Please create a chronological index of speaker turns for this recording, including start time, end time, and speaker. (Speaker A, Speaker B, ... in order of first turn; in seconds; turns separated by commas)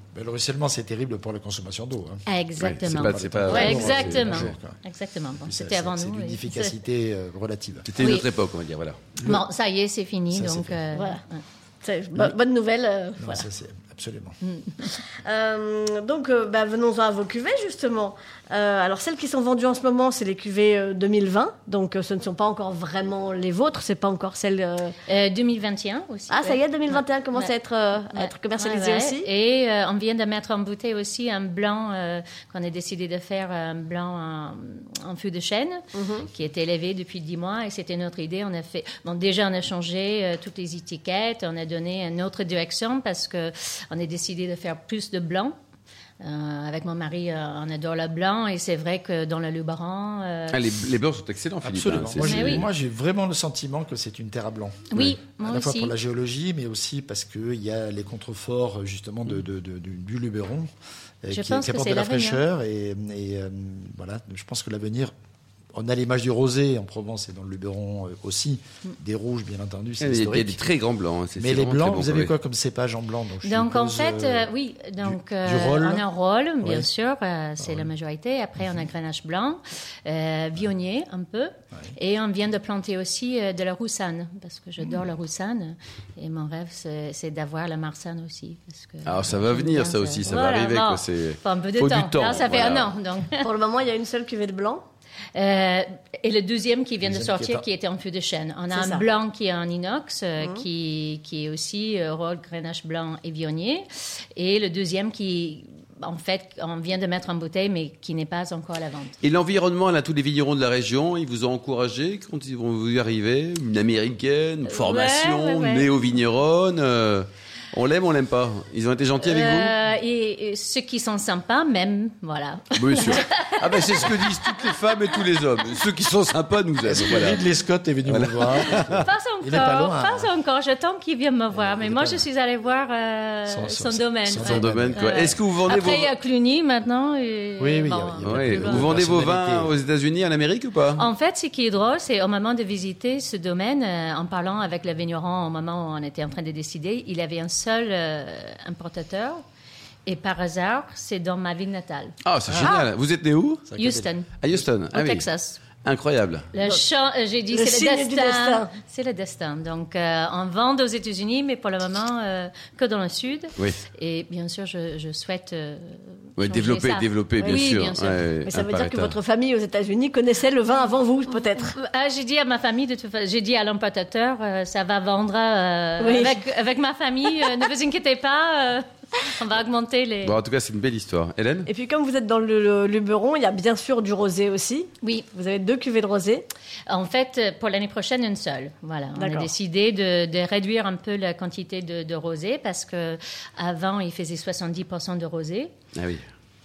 Speaker A: 0.1-2.2, Speaker B: 2.3-6.7, Speaker C: 2.6-4.5, Speaker A: 2.9-4.8, Speaker D: 3.5-3.8, Speaker A: 5.5-7.9, Speaker C: 7.9-9.1, Speaker B: 8.0-8.3, Speaker B: 9.2-11.4, Speaker A: 10.3-10.8, Speaker D: 10.9-11.2, Speaker D: 11.8-13.4, Speaker A: 13.2-14.4, Speaker D: 14.9-24.9, Speaker B: 25.1-27.5, Speaker D: 26.3-29.3, Speaker B: 28.1-45.5, Speaker D: 35.9-36.3, Speaker B: 46.2-50.6, Speaker C: 50.5-52.6, Speaker A: 51.6-60.7, Speaker B: 52.2-52.6, Speaker B: 54.9-55.9, Speaker A: 61.2-65.1, Speaker B: 61.3-62.4, Speaker A: 65.7-70.6, Speaker C: 70.0-72.3, Speaker A: 71.4-74.5, Speaker B: 73.4-93.5, Speaker A: 75.0-76.0, Speaker A: 76.6-76.9, Speaker A: 77.6-77.9, Speaker C: 89.0-92.9, Speaker D: 93.4-94.8, Speaker B: 95.3-109.2, Speaker A: 97.0-97.6, Speaker D: 98.7-99.1, Speaker C: 109.2-119.7, Speaker B: 114.7-115.9, Speaker B: 119.2-124.7, Speaker C: 122.7-127.4, Speaker A: 126.8-130.3, Speaker C: 128.1-129.1, Speaker B: 129.0-138.9, Speaker A: 131.5-132.2, Speaker A: 133.5-136.0, Speaker C: 134.4-136.1, Speaker A: 137.6-139.7, Speaker C: 138.2-141.1, Speaker B: 140.9-149.4, Speaker B: 150.1-152.8, Speaker C: 152.2-153.7, Speaker A: 153.7-154.6, Speaker B: 153.8-154.3, Speaker C: 154.4-155.2, Speaker B: 154.9-155.6, Speaker C: 155.8-156.5, Speaker B: 156.5-168.3, Speaker D: 157.5-158.7, Speaker C: 166.4-169.2, Speaker D: 168.4-171.8, Speaker B: 171.7-180.4, Speaker D: 176.0-176.4, Speaker C: 180.2-181.7, Speaker D: 181.7-186.5, Speaker B: 185.0-185.3, Speaker B: 186.9-195.7, Speaker D: 189.2-189.5, Speaker C: 195.9-196.2